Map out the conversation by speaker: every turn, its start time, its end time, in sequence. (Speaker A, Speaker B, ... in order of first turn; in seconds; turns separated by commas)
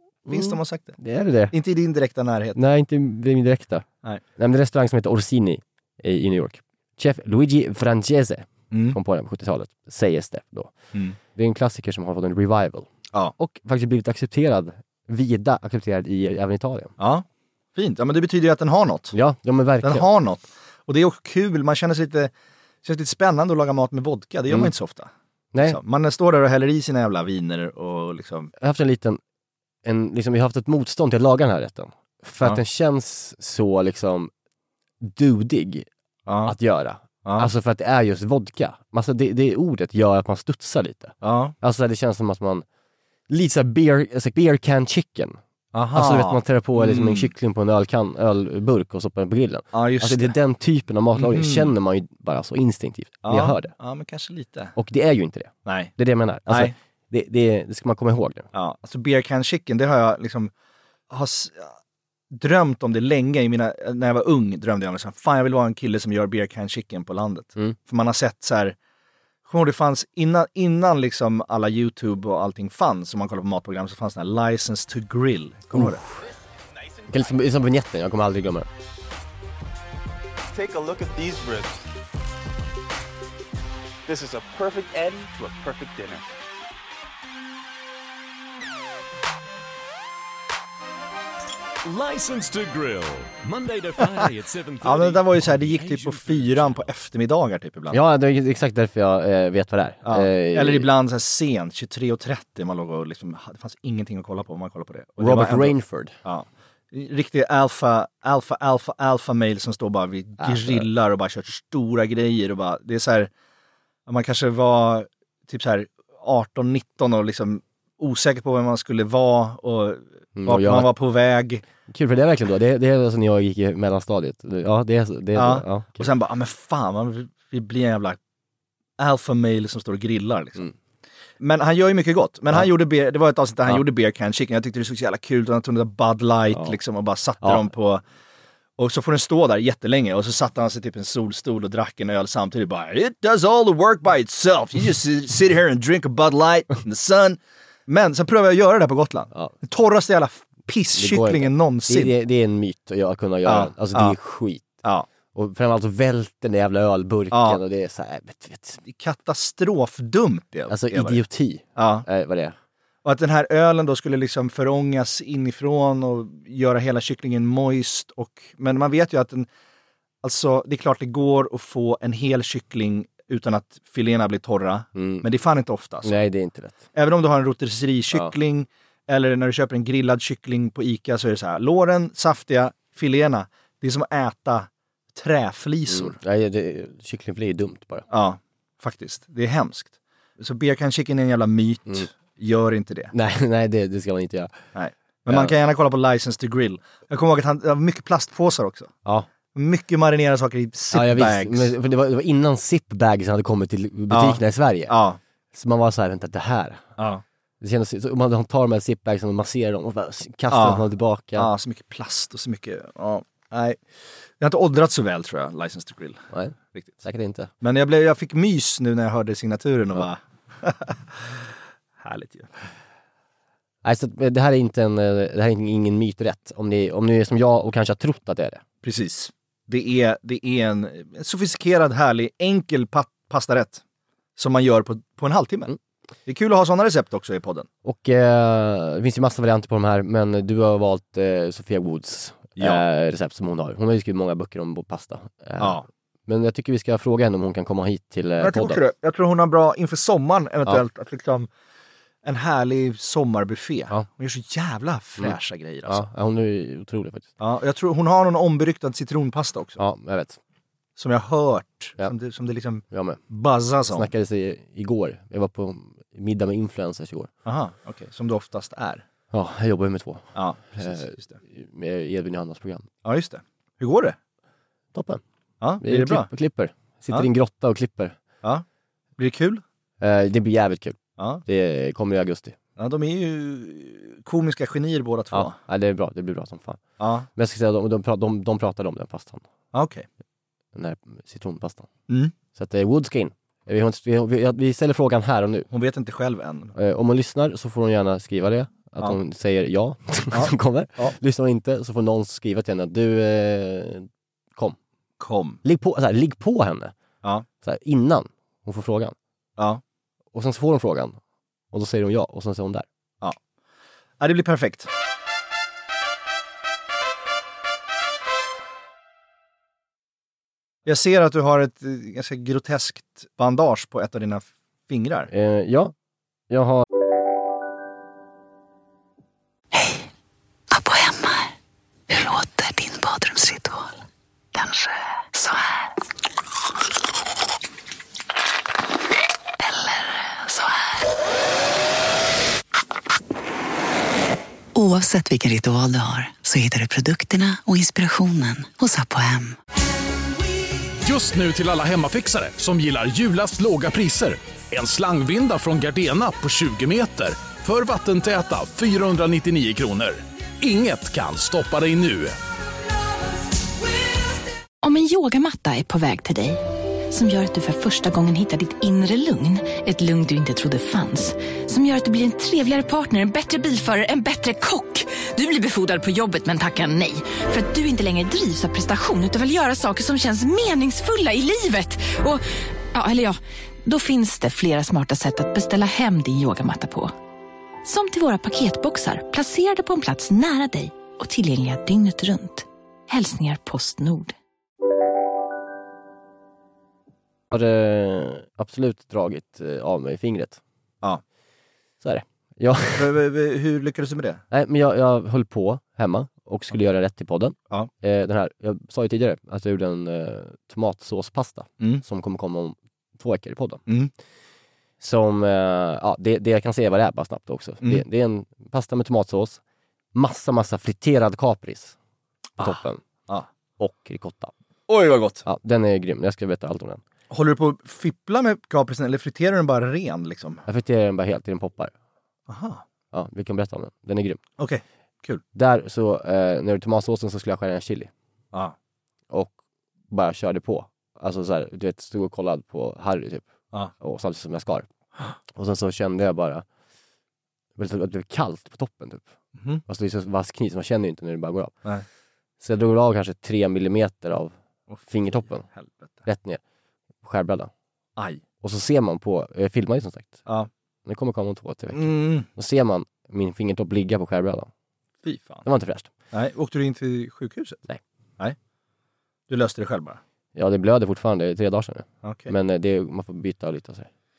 Speaker A: 0.3-1.0, Speaker B: 0.3-1.5, Speaker A: 1.5-2.6, Speaker B: 2.6-3.9, Speaker B: 4.4-10.7, Speaker A: 8.7-9.0, Speaker B: 11.3-16.9, Speaker A: 17.0-19.1, Speaker B: 19.1-20.1, Speaker A: 19.8-22.3, Speaker A: 22.8-28.5, Speaker B: 25.5-25.8, Speaker B: 28.6-29.2, Speaker B: 29.8-34.3, Speaker B: 35.0-35.9, Speaker A: 36.3-36.5, Speaker B: 36.5-42.6, Speaker A: 37.2-37.5, Speaker A: 41.2-41.5, Speaker B: 43.3-45.4, Speaker A: 45.7-47.3, Speaker B: 45.9-53.7, Speaker A: 49.7-50.3, Speaker A: 51.1-51.7, Speaker A: 53.2-54.8, Speaker B: 54.8-58.5, Speaker A: 55.7-55.9, Speaker A: 56.5-56.8, Speaker A: 58.5-60.5, Speaker A: 61.1-61.7, Speaker A: 62.3-68.8, Speaker A: 69.5-76.0, Speaker B: 75.7-76.0, Speaker B: 77.1-78.7, Speaker C: 80.5-81.9, Speaker C: 84.1-86.3, Speaker D: 91.8-96.9, Speaker A: 94.8-98.0, Speaker B: 97.9-100.9, Speaker A: 100.0-113.3, Speaker B: 105.2-106.2, Speaker B: 110.4-110.9, Speaker A: 114.1-121.6, Speaker B: 120.4-120.9, Speaker B: 121.9-126.1, Speaker A: 125.3-128.2, Speaker A: 129.0-130.7, Speaker A: 131.4-138.0, Speaker B: 136.5-136.8, Speaker B: 137.4-137.7, Speaker A: 138.8-152.1, Speaker B: 151.0-154.7, Speaker A: 153.4-154.2, Speaker B: 155.3-158.8, Speaker A: 157.3-157.6, Speaker A: 158.8-161.2, Speaker B: 160.7-162.6, Speaker A: 161.8-162.1, Speaker A: 163.0-169.5, Speaker A: 170.2-176.1, Speaker B: 174.9-175.3, Speaker B: 176.0-176.8, Speaker A: 176.9-186.2, Speaker B: 185.9-188.1, Speaker A: 188.1-193.1, Speaker B: 193.1-194.6, Speaker A: 194.8-199.0, Speaker A: 199.5-201.7, Speaker B: 200.9-204.9, Speaker A: 204.1-205.2, Speaker B: 205.5-206.8, Speaker A: 207.0-207.2, Speaker B: 207.6-211.5, Speaker A: 210.5-213.8, Speaker A: 214.4-217.0, Speaker B: 216.3-217.5, Speaker A: 217.6-221.5, Speaker A: 222.0-222.5, Speaker B: 223.8-228.6, Speaker A: 228.8-233.8, Speaker A: 234.4-235.7, Speaker A: 236.3-237.7, Speaker B: 237.8-248.8, Speaker A: 242.6-242.8, Speaker A: 245.6-245.9, Speaker A: 248.4-251.5, Speaker A: 252.2-256.1, Speaker B: 255.9-257.3, Speaker A: 257.4-259.8, Speaker B: 259.8-260.4, Speaker A: 261.0-264.1, Speaker B: 262.9-263.2, Speaker B: 263.9-267.3, Speaker A: 267.4-269.0, Speaker B: 269.3-272.9, Speaker A: 270.4-271.4, Speaker A: 273.0-274.2, Speaker B: 274.9-275.2, Speaker A: 275.6-276.3, Speaker B: 275.8-278.1, Speaker A: 279.2-279.6, Speaker B: 280.0-282.6, Speaker A: 281.2-281.4, Speaker A: 282.8-285.6, Speaker B: 285.3-286.8, Speaker A: 287.0-287.3, Speaker B: 287.4-289.4, Speaker A: 289.7-290.1, Speaker B: 290.8-291.9, Speaker A: 292.1-292.3, Speaker B: 292.5-295.7, Speaker A: 295.7-296.8, Speaker B: 296.8-304.8, Speaker A: 300.3-301.2, Speaker A: 305.2-305.6, Speaker B: 305.6-306.9, Speaker B: 307.6-309.1, Speaker A: 309.6-309.8, Speaker B: 310.3-311.2, Speaker B: 311.7-312.9, Speaker A: 314.2-314.9, Speaker A: 320.9-325.3, Speaker B: 325.3-325.9, Speaker B: 326.5-326.9, Speaker E: 329.7-330.1, Speaker E: 330.7-331.5, Speaker E: 332.1-333.9, Speaker E: 334.6-335.9, Speaker E: 339.6-340.8, Speaker E: 344.8-349.6, Speaker F: 351.0-362.4, Speaker G: 364.8-387.1, Speaker G: 387.8-394.4, Speaker B: 397.5-400.6, Speaker B: 402.0-403.1, Speaker A: 402.9-404.4, Speaker B: 404.5-413.8, Speaker B: 415.0-419.6, Speaker B: 420.1-422.0, Speaker A: 422.6-423.5, Speaker B: 422.6-423.0, Speaker B: 423.8-424.5, Speaker A: 424.9-425.4, Speaker B: 425.4-427.0, Speaker A: 427.3-430.6, Speaker B: 430.7-431.9, Speaker A: 432.5-432.8, Speaker B: 433.1-434.4, Speaker A: 434.6-435.4, Speaker B: 435.5-438.1, Speaker B: 440.1-443.5, Speaker B: 444.0-444.9, Speaker B: 445.5-446.6, Speaker B: 447.8-449.3, Speaker A: 449.6-449.8, Speaker B: 449.9-451.8, Speaker B: 452.6-455.7, Speaker A: 454.9-456.2, Speaker B: 456.2-456.6, Speaker B: 457.2-457.7, Speaker A: 458.2-458.4, Speaker B: 458.6-460.4, Speaker B: 461.1-464.7, Speaker A: 461.9-462.5, Speaker A: 465.2-465.7, Speaker B: 465.6-466.1, Speaker A: 466.3-467.8, Speaker A: 469.5-470.2, Speaker B: 470.6-474.1, Speaker A: 472.2-472.5